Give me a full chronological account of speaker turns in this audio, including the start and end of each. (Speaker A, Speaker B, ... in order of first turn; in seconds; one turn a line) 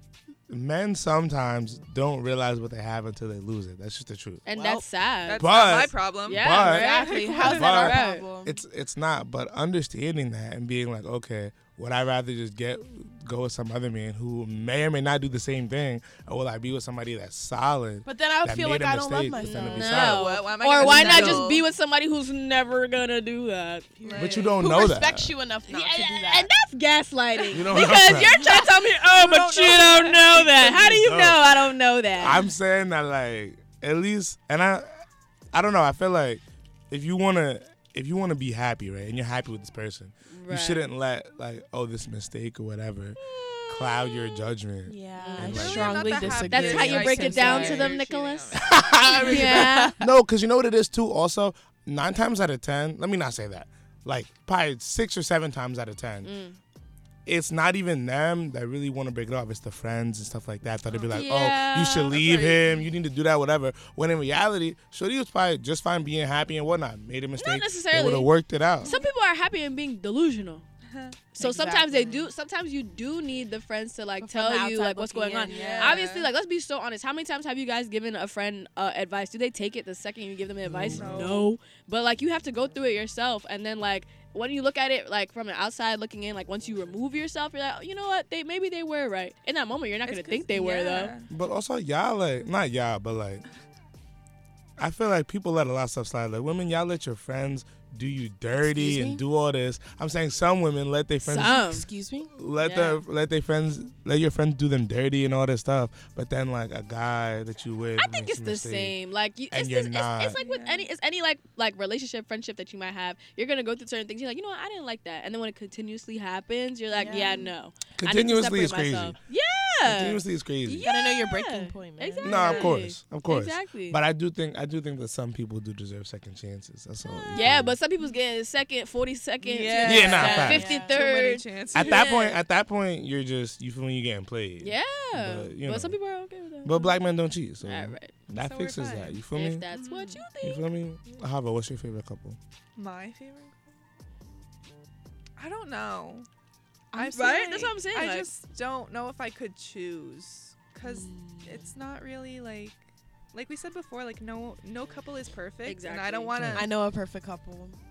Speaker A: 0.5-4.4
Speaker B: 4.5-5.5
Speaker C: 4.5-4.8
Speaker D: 5.3-7.5
Speaker A: 5.4-20.3
Speaker B: 6.3-8.3
Speaker C: 6.5-8.6
Speaker C: 18.1-20.2
Speaker B: 19.4-23.9
Speaker D: 20.0-21.6
Speaker C: 20.8-21.5
Speaker A: 20.8-21.5
Speaker C: 24.0-26.5
Speaker D: 24.0-24.7
Speaker A: 24.2-25.4
Speaker B: 25.7-32.4
Speaker A: 27.5-28.4
Speaker C: 28.2-28.5
Speaker D: 28.4-30.7
Speaker A: 30.7-31.4
Speaker A: 32.2-34.9
Speaker A: 35.5-46.1
Speaker B: 40.3-40.9
Speaker C: 44.9-48.0
Speaker B: 45.2-50.0
Speaker D: 45.4-48.8
Speaker A: 48.6-56.3
Speaker C: 49.1-50.0
Speaker B: 56.2-56.6
Speaker A: 57.3-68.9
Speaker D: 60.9-61.2
Speaker B: 61.1-62.2
Speaker D: 62.1-62.8
Speaker B: 67.4-68.3
Speaker B: 68.8-70.7
Speaker D: 70.9-71.2
Speaker B: 71.3-91.1
Speaker C: 71.4-72.3
Speaker C: 74.2-76.0
Speaker D: 75.5-76.3
Speaker A: 80.7-81.3
Speaker D: 80.9-81.5
Speaker D: 90.1-91.3
Speaker A: 91.3-93.4
Speaker A: 94.8-101.7
Speaker C: 98.6-99.2
Speaker B: 101.2-101.9
Speaker C: 101.3-102.3
Speaker A: 102.3-109.0
Speaker B: 102.6-103.0
Speaker B: 108.0-124.0
Speaker A: 109.5-110.4
Speaker D: 110.4-110.9
Speaker C: 116.9-117.5
Speaker A: 118.0-119.2
Speaker A: 119.8-120.8
Speaker C: 120.8-122.7
Speaker A: 122.2-127.8
Speaker B: 127.3-132.4
Speaker D: 129.4-132.1
Speaker C: 129.6-131.0
Speaker A: 129.8-130.7
Speaker A: 131.7-136.0
Speaker B: 134.6-136.9
Speaker A: 136.6-139.7
Speaker B: 137.6-138.1
Speaker D: 138.4-139.2
Speaker B: 139.3-140.6
Speaker D: 139.7-140.3
Speaker A: 140.4-142.4
Speaker D: 142.8-143.5
Speaker D: 145.4-146.3
Speaker D: 146.9-152.8
Speaker B: 146.9-148.3
Speaker C: 150.8-151.7
Speaker D: 153.3-156.7
Speaker B: 155.7-156.3
Speaker A: 156.4-156.7
Speaker C: 156.6-157.8